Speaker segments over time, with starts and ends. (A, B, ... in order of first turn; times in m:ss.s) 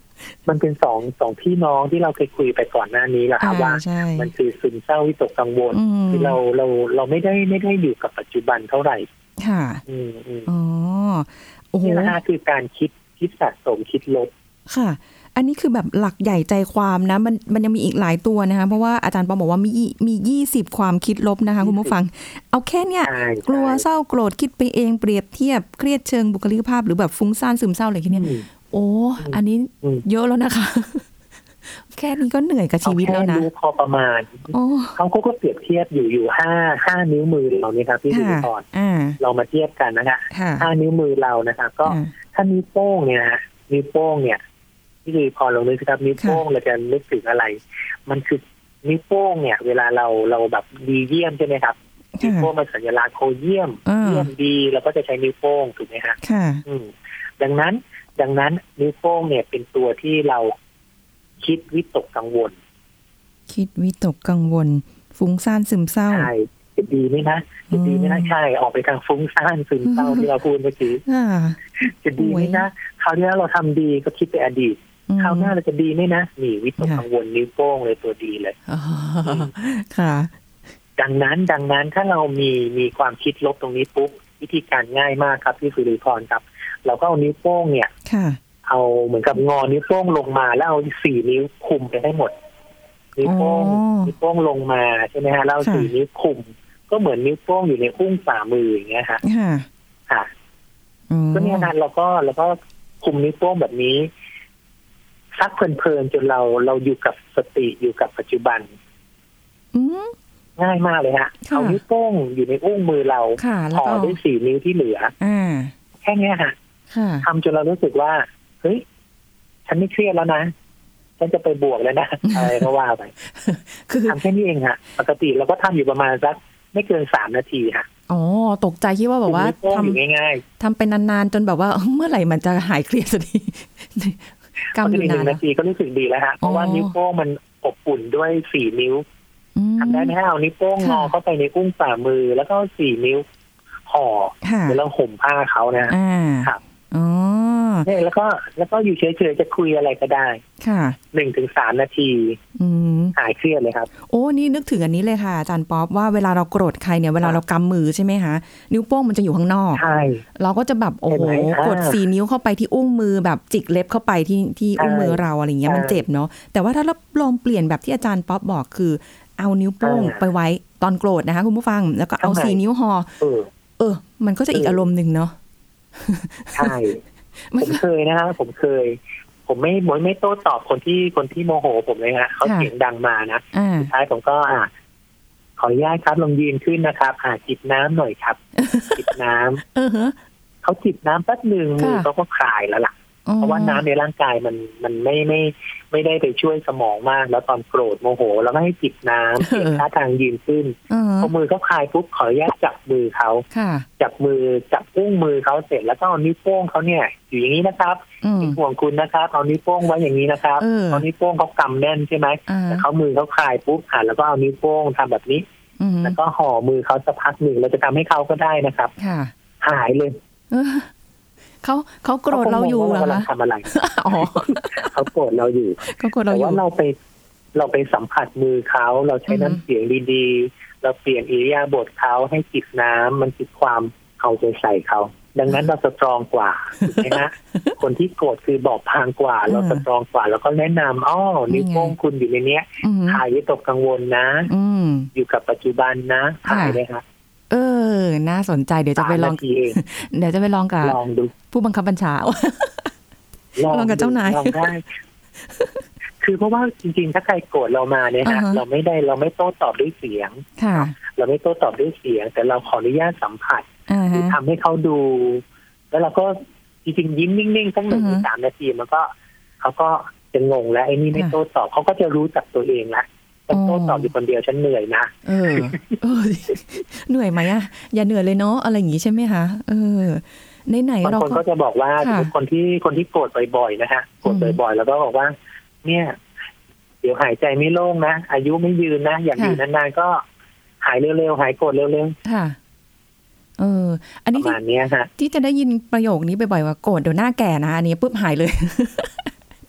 0:00.5-0:09.1 A
0:03.4-0:04.3 B
0:05.7-0:06.4 B
0:09.4-0:09.8 B
0:09.8-0:10.5 A
0:10.4-0:12.2 B
0:11.8-0:14.3 A
0:14.7-0:31.1 B
0:21.6-0:22.0 A
0:23.0-0:23.8 A
0:28.1-0:28.4 A
0:29.2-0:30.0 A
0:31.7-0:33.5 B
0:32.8-0:38.6 A
0:34.5-0:35.0 B
0:38.1-0:39.2 B
0:39.2-0:44.4 A
0:40.3-0:40.7 B
0:41.8-0:42.1 B
0:45.0-1:00.5 A
0:52.1-0:52.5 B
0:53.8-0:54.3 B
0:56.2-0:56.6 B
1:01.4-1:02.5 A
1:03.5-1:06.3 B
1:06.1-1:11.0 A
1:07.7-1:08.3 B
1:09.8-1:10.2 B
1:11.0-1:11.6 B
1:11.8-1:18.5 A
1:12.2-1:12.6 B
1:15.1-1:15.5 B
1:18.7-1:20.3 B
1:19.2-1:19.5 A
1:21.0-1:27.9 A
1:28.0-1:28.4 B
1:28.6-1:32.3 A
1:33.2-1:39.2 A
1:33.2-1:34.1 B
1:35.6-1:35.9 B
1:39.2-1:39.7 B
1:41.1-1:41.7 B
1:41.3-1:44.1 A
1:45.4-1:48.7 A
1:49.7-1:50.1 B
1:50.6-1:55.1 A
1:51.4-1:51.8 B
1:53.4-1:54.2 B
1:55.2-1:55.7 B
1:56.0-1:56.5 A
1:56.9-1:57.3 B
1:57.2-1:58.8 A
1:59.7-2:00.5 A
2:01.2-2:03.1 A
2:02.3-2:02.6 B
2:03.2-2:04.2 B
2:04.0-2:07.9 A
2:08.1-2:10.0 B
2:09.3-2:10.4 A
2:10.6-2:15.4 B
2:14.8-2:19.0 A
2:16.4-2:16.9 B
2:19.5-2:20.1 B
2:19.8-2:23.2 A
2:20.8-2:21.1 B
2:23.9-2:26.6 A
2:24.4-2:24.8 B
2:25.9-2:27.9 B
2:27.8-2:30.4 A
2:30.6-2:31.0 B
2:31.1-2:32.4 A
2:32.6-2:33.2 B
2:33.2-2:33.9 A
2:34.0-2:39.8 B
2:39.7-2:40.2 A
2:40.4-2:53.1 B
2:41.1-2:42.0 A
2:44.8-2:46.0 A
2:49.8-2:50.2 A
2:52.2-2:52.6 A
2:53.2-2:53.5 A
2:53.8-2:55.4 B
2:54.5-2:54.8 A
2:55.9-2:56.7 B
2:56.5-2:57.0 A
2:57.4-2:57.8 B
2:57.6-3:04.7 A
3:02.4-3:02.7 B
3:03.5-3:03.9 B
3:05.6-3:08.4 A
3:08.6-3:09.0 B
3:08.9-3:09.6 A
3:09.7-3:10.2 B
3:10.6-3:23.4 A
3:11.8-3:12.1 B
3:13.2-3:13.8 B
3:19.4-3:19.8 B
3:20.9-3:21.3 B
3:23.5-3:23.9 B
3:24.0-3:35.4 A
3:28.2-3:28.6 B
3:30.6-3:31.0 B
3:32.5-3:32.8 B
3:35.8-3:36.2 B
3:36.0-3:38.9 A
3:39.0-3:39.3 B
3:39.6-3:40.2 A
3:40.5-3:40.9 B
3:41.6-3:44.9 B
3:42.3-3:46.9 A
3:45.8-3:46.6 B
3:47.5-4:04.5 A
3:49.3-3:49.6 B
3:56.8-3:57.7 B
3:59.5-3:59.8 B
4:01.5-4:01.9 B
4:02.8-4:03.2 B
4:04.5-4:05.1 B
4:05.1-4:07.0 A
4:06.5-4:06.8 B
4:07.5-4:11.0 B
4:09.0-4:09.8 A
4:10.8-4:11.3 A
4:11.5-4:12.9 B
4:13.6-4:14.8 A
4:13.7-4:14.7 B
4:15.4-4:15.8 B
4:16.2-4:36.0 A
4:18.2-4:18.6 B
4:20.6-4:20.9 B
4:23.9-4:24.4 B
4:27.9-4:28.3 B
4:33.5-4:34.1 B
4:35.2-4:41.4 B
4:41.0-4:46.2 A
4:42.0-4:42.3 B
4:44.2-4:44.6 B
4:47.0-4:50.2 A
4:49.4-4:49.6 B
4:50.8-4:52.2 A
4:52.2-4:52.6 B
4:53.6-4:54.6 B
4:54.4-4:55.1 A
4:55.2-4:59.3 B